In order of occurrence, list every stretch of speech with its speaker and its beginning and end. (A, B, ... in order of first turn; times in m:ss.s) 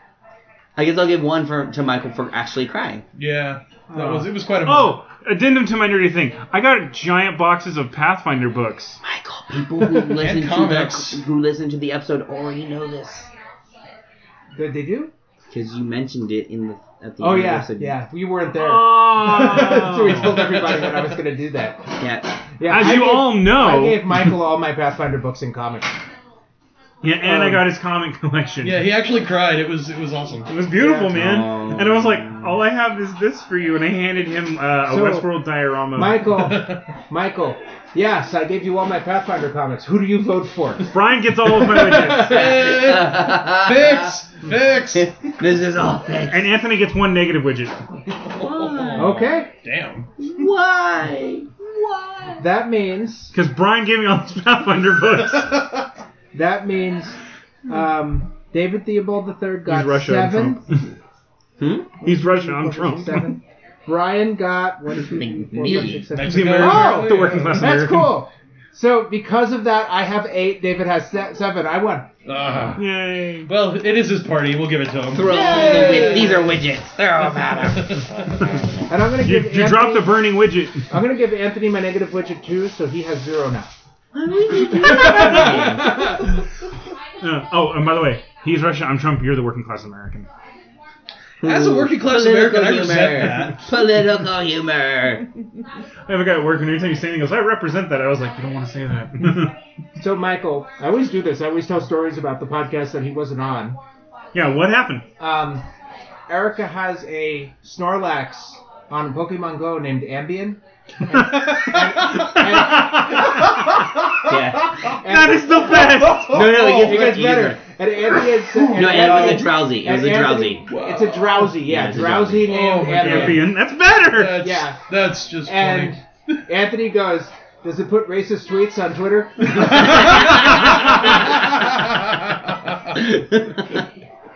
0:00.8-0:03.0 A
0:03.2-0:05.0 B
0:03.9-0:09.0 C
0:09.0-0:13.3 A
0:10.0-0:11.2 B
0:14.6-0:15.1 D
0:15.5-0:18.0 A
0:17.2-0:21.9 D
0:18.5-0:20.4 C
0:20.1-0:21.1 B
0:22.0-0:22.4 A
0:22.6-0:25.9 D
0:22.7-0:24.4 C
0:27.0-0:28.9 C
0:27.2-0:27.7 D
0:28.6-0:30.5 B
0:30.5-0:36.4 C
0:30.7-0:31.2 D
0:31.1-0:32.6 A
0:34.9-0:35.3 D
0:36.0-0:40.9 D
0:36.3-0:36.8 B
0:40.9-0:42.6 C
0:41.6-0:42.4 D
0:41.7-0:45.1 B
0:42.5-0:44.1 A
0:44.9-0:46.6 A
0:46.3-0:47.8 C
0:48.3-0:50.1 B
0:48.4-0:49.1 A
0:49.0-0:49.5 D
0:50.2-0:52.4 A
0:52.4-0:53.4 D
0:53.3-0:55.6 C
0:55.4-0:55.8 B
0:56.3-1:00.6 D
0:59.7-1:00.8 C
1:01.6-1:01.9 A
1:02.0-1:03.4 C
1:02.0-1:12.1 D
1:05.0-1:06.1 A
1:05.7-1:08.2 C
1:06.1-1:07.8 B
1:12.3-1:12.8 B
1:12.8-1:13.5 C
1:13.5-1:16.4 B
1:15.1-1:18.0 A
1:15.2-1:16.5 D
1:17.7-1:18.5 B
1:18.9-1:20.3 D
1:19.2-1:20.9 C
1:20.9-1:23.7 D
1:24.1-1:26.4 A
1:24.8-1:26.2 D
1:24.8-1:25.9 C
1:27.2-1:30.3 C
1:31.4-1:35.3 A
1:31.4-1:33.7 B
1:36.1-1:39.5 C
1:40.0-1:43.8 D
1:44.3-1:45.0 C
1:45.2-1:45.6 D
1:46.3-1:50.6 D
1:51.1-1:53.6 C
1:51.2-1:53.3 D
1:53.4-1:54.3 B
1:54.2-1:55.0 A
1:54.9-1:55.8 D
1:55.0-1:56.4 C
1:55.8-1:57.1 B
1:56.2-1:57.6 A
1:56.4-2:03.5 D
1:58.5-1:59.4 B
1:58.7-2:00.6 A
2:00.7-2:01.5 B
2:01.6-2:02.6 A
2:02.5-2:03.5 B
2:02.9-2:04.5 C
2:04.0-2:05.9 B
2:04.4-2:04.8 D
2:05.4-2:10.2 D
2:09.5-2:12.8 B
2:13.0-2:13.6 A